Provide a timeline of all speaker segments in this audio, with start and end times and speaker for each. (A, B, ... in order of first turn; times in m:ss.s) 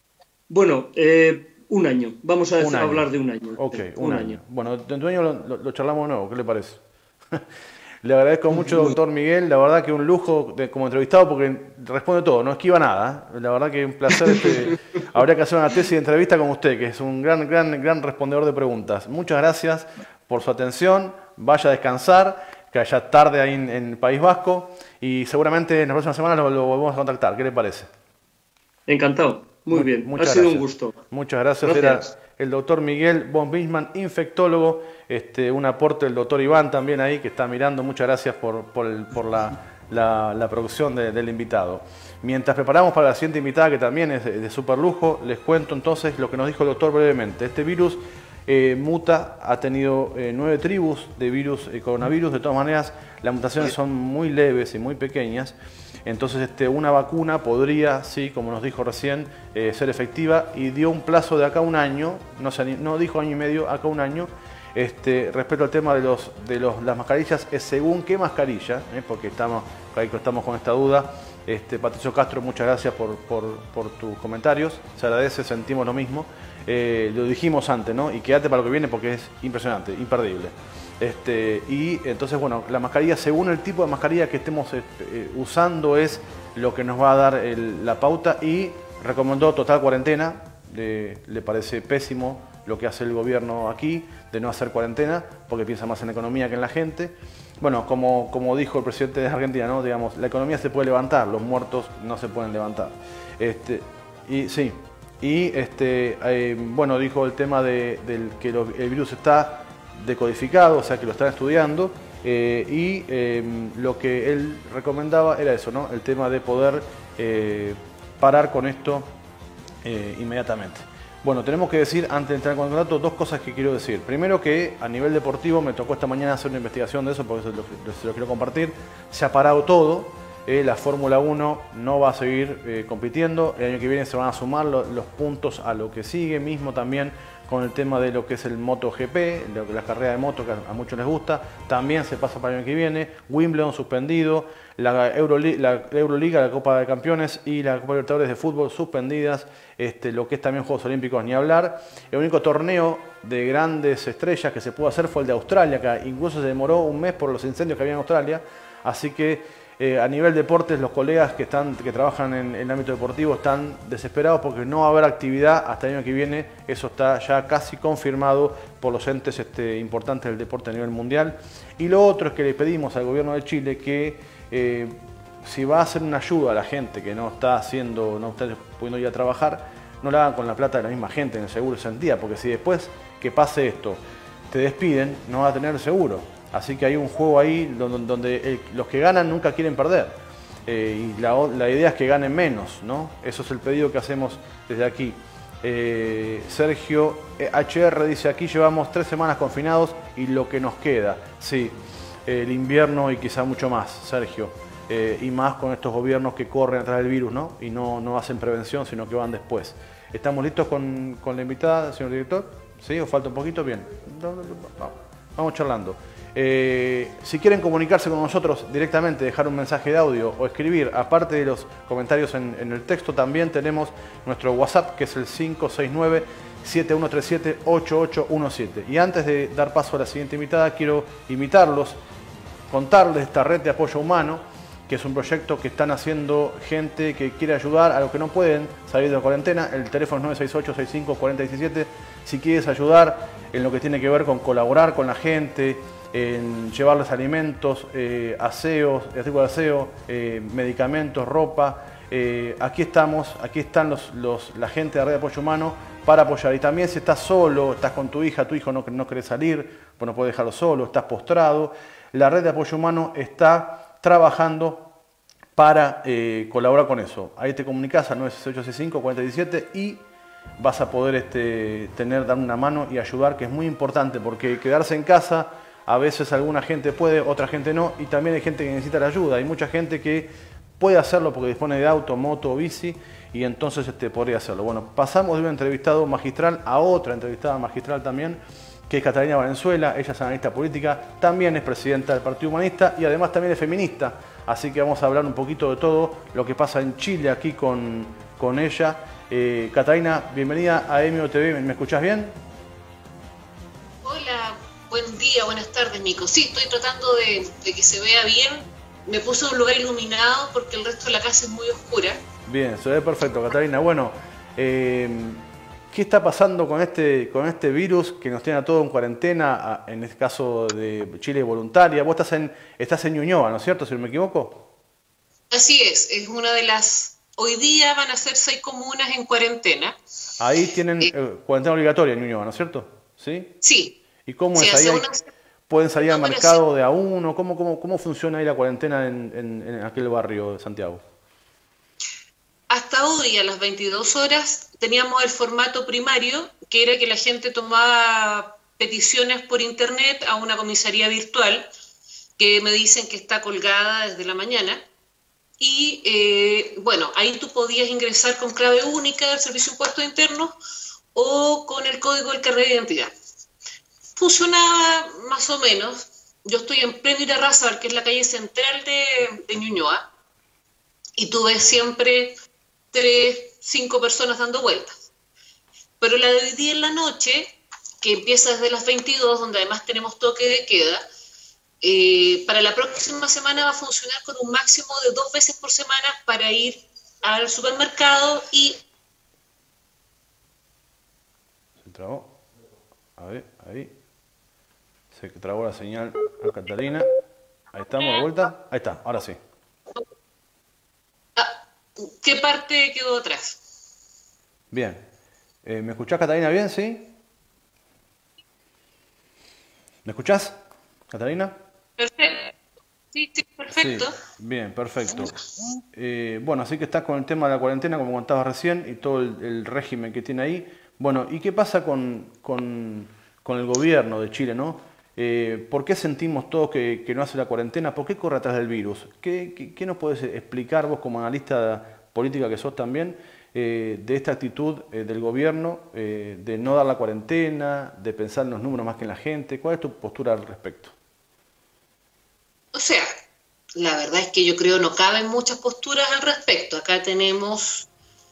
0:00.5-0:04.4 A
0:02.6-0:07.4 B
0:08.0-0:27.9 B
0:28.9-0:31.0 A
0:29.7-1:59.1 B
0:31.6-0:32.1 A
1:59.8-3:21.7 B
3:22.2-3:52.0 B
3:52.7-4:24.9 B
4:25.5-4:30.0 B
4:30.6-5:02.4 B
5:04.0-5:12.2 C
5:12.4-5:24.7 B
5:25.5-5:30.0 C
5:30.4-5:33.5 B
5:33.6-5:34.0 C
5:34.2-5:35.0 B
5:34.5-5:35.3 C
5:35.7-5:41.0 B
5:36.0-5:36.6 C
5:42.7-5:51.7 C
5:52.4-5:54.8 C
5:55.6-6:00.5 C
6:01.1-6:03.1 C
6:04.2-6:10.1 C
6:11.2-6:12.3 C
6:12.9-6:15.1 C
6:16.0-6:21.0 C
6:21.8-6:28.8 C
6:31.8-6:32.3 B
6:33.2-6:33.9 B
6:35.1-6:37.1 B
6:37.7-6:39.4 B
6:38.0-6:38.2 C
6:41.4-6:43.6 C
6:44.7-6:45.0 B
6:45.6-6:47.2 B
6:50.0-6:51.6 B
6:52.0-6:52.5 C
6:53.1-6:54.2 C
6:53.8-6:55.3 B
6:55.9-7:20.9 B
7:22.7-7:23.1 C
7:23.8-7:27.9 C